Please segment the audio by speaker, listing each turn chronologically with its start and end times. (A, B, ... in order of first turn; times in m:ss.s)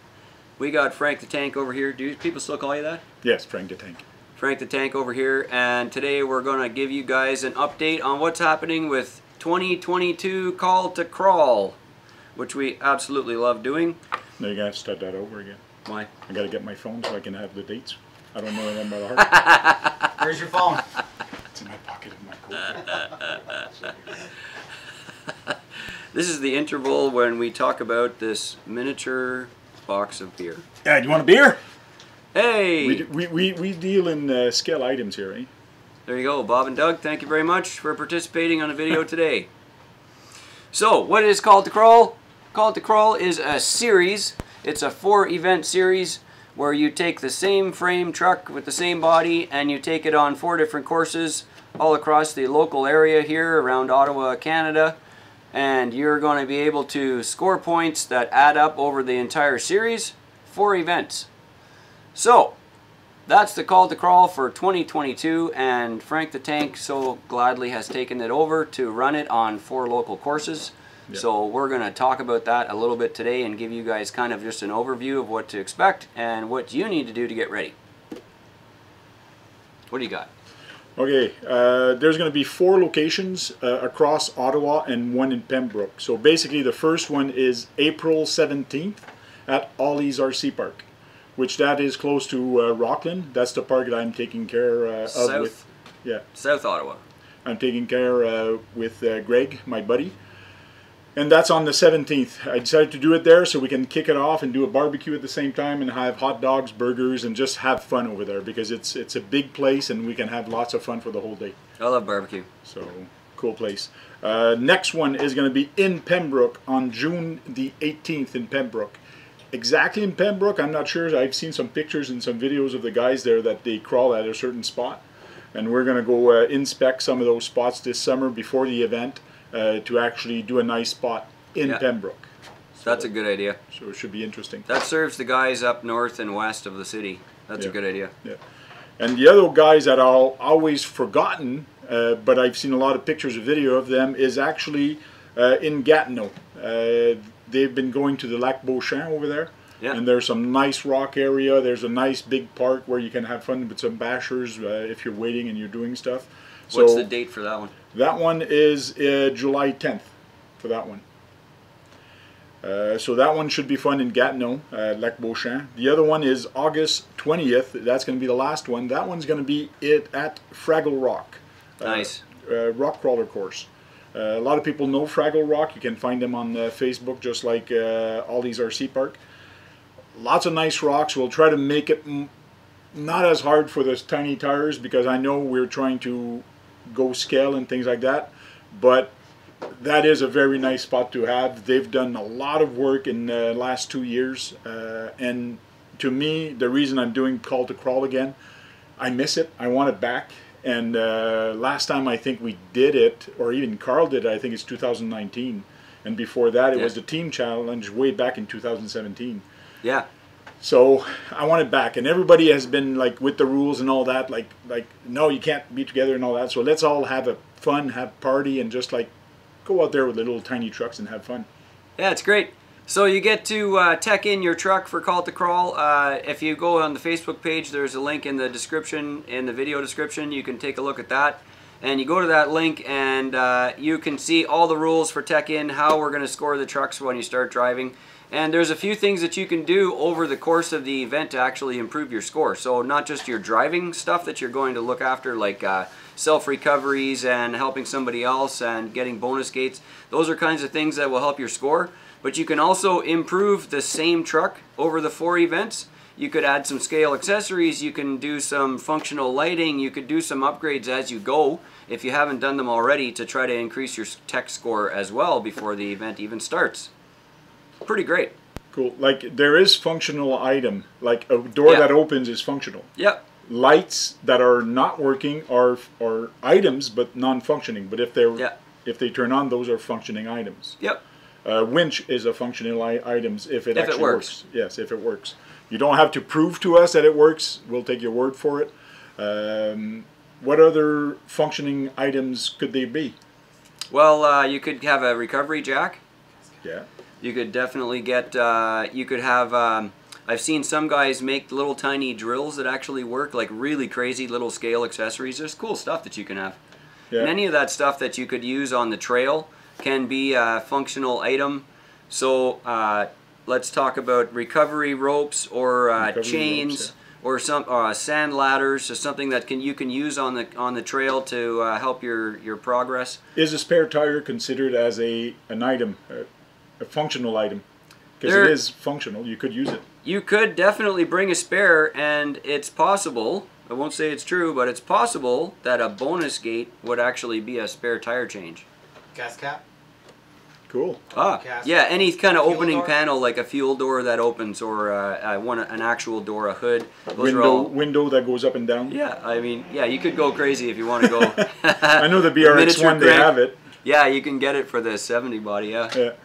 0:00.6-0:03.0 A
0:03.2-0:04.0 B
0:04.4-0:11.8 A
0:12.4-0:14.0 A
0:14.4-0:15.6 B
0:16.3-0:19.3 B
0:19.2-0:20.1 A
0:20.2-0:20.8 C
0:21.5-0:23.9 B
0:22.9-0:23.6 A
0:25.4-0:30.6 A
0:30.8-0:31.6 B
0:32.3-0:33.0 A
0:32.8-0:35.5 B
0:36.0-0:39.5 A
0:40.7-0:55.0 A
0:55.5-1:01.3 A
1:02.2-1:02.6 A
1:03.3-1:17.8 A
1:19.9-1:20.3 A
1:21.0-1:36.2 B
1:35.1-1:35.7 A
1:36.3-1:37.0 A
1:37.4-1:40.2 B
1:41.2-1:51.6 B
1:51.8-1:52.5 A
1:52.6-1:59.0 B
1:59.5-2:13.1 B
2:12.8-2:13.6 A
2:13.7-2:14.7 B
2:14.7-2:18.1 A
2:17.6-2:18.4 B
2:19.0-2:37.1 B
2:36.7-2:37.7 A
2:37.9-2:41.0 B
2:42.6-2:59.2 B
2:51.8-2:52.2 A
3:00.1-3:02.3 B
3:02.9-3:09.1 B
3:09.7-3:18.4 B
3:19.0-3:29.4 B
3:29.8-3:30.1 A
3:30.6-3:39.1 B
3:39.6-3:41.5 B
3:42.0-4:26.9 A
4:27.8-4:28.3 A
4:28.7-4:32.9 B
4:31.6-4:31.9 A
4:33.0-4:33.2 A
4:33.4-4:40.8 B
4:41.4-4:53.1 B
4:43.8-4:44.3 A
4:53.9-4:56.0 A
4:57.2-5:06.6 A
5:07.2-5:23.2 A
5:16.0-5:16.9 B
5:23.3-5:26.3 B
5:26.8-5:27.6 B
5:28.2-5:29.8 B
5:28.2-5:28.6 A
5:30.0-5:38.6 A
5:39.1-5:39.6 C
5:40.7-5:41.0 B
5:41.1-5:47.7 A
5:41.2-5:41.8 C
5:42.5-5:42.9 C
5:47.1-5:49.0 B
5:48.9-5:56.0 A
5:51.0-5:53.6 B